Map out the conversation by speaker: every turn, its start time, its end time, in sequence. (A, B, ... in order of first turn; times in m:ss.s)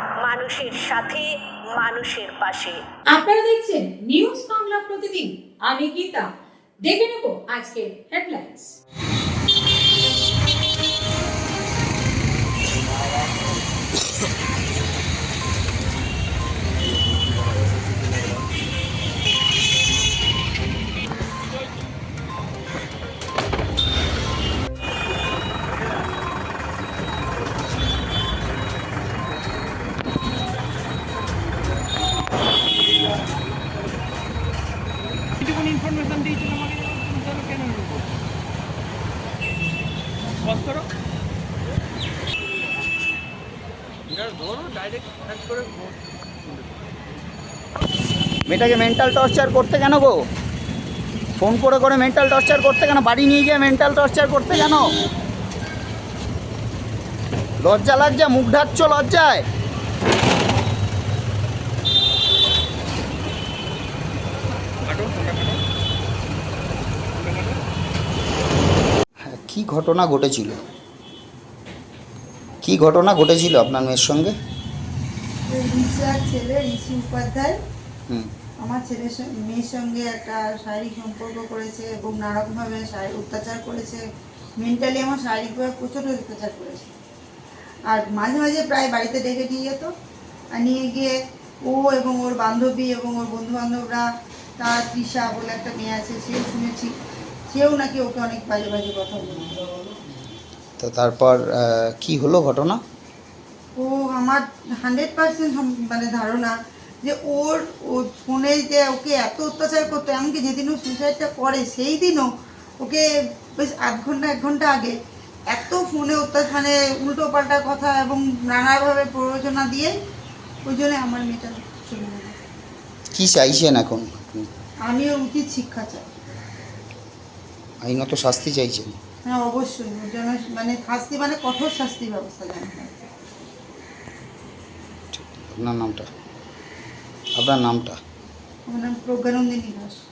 0:00.2-0:02.8 A
0:03.1-0:06.2 B
0:06.8-0:08.7 B
0:35.4-0:38.1 C
0:40.4-0:40.8 C
0:44.1-0:46.6 C
0:48.5-0:50.2 D
0:51.4-0:54.9 D
0:57.6-0:59.4 D
1:04.8-1:05.6 C
1:07.2-1:07.6 C
1:09.2-1:10.6 D
1:12.6-1:14.3 D
1:15.5-1:17.6 E
1:18.6-1:24.0 E
1:24.6-1:27.0 E
1:27.9-1:29.9 E
1:30.5-1:31.1 E
1:31.6-1:34.1 E
1:34.6-1:37.0 E
1:37.5-1:39.7 E
1:40.8-1:42.8 D
1:43.8-1:52.3 E
1:52.8-1:55.0 E
1:55.5-2:00.0 E
2:00.6-2:02.4 E
2:03.1-2:04.5 D
2:04.9-2:06.1 E
2:07.8-2:09.0 D
2:09.2-2:13.1 E
2:15.1-2:16.1 D
2:17.4-2:18.0 D
2:18.7-2:20.0 E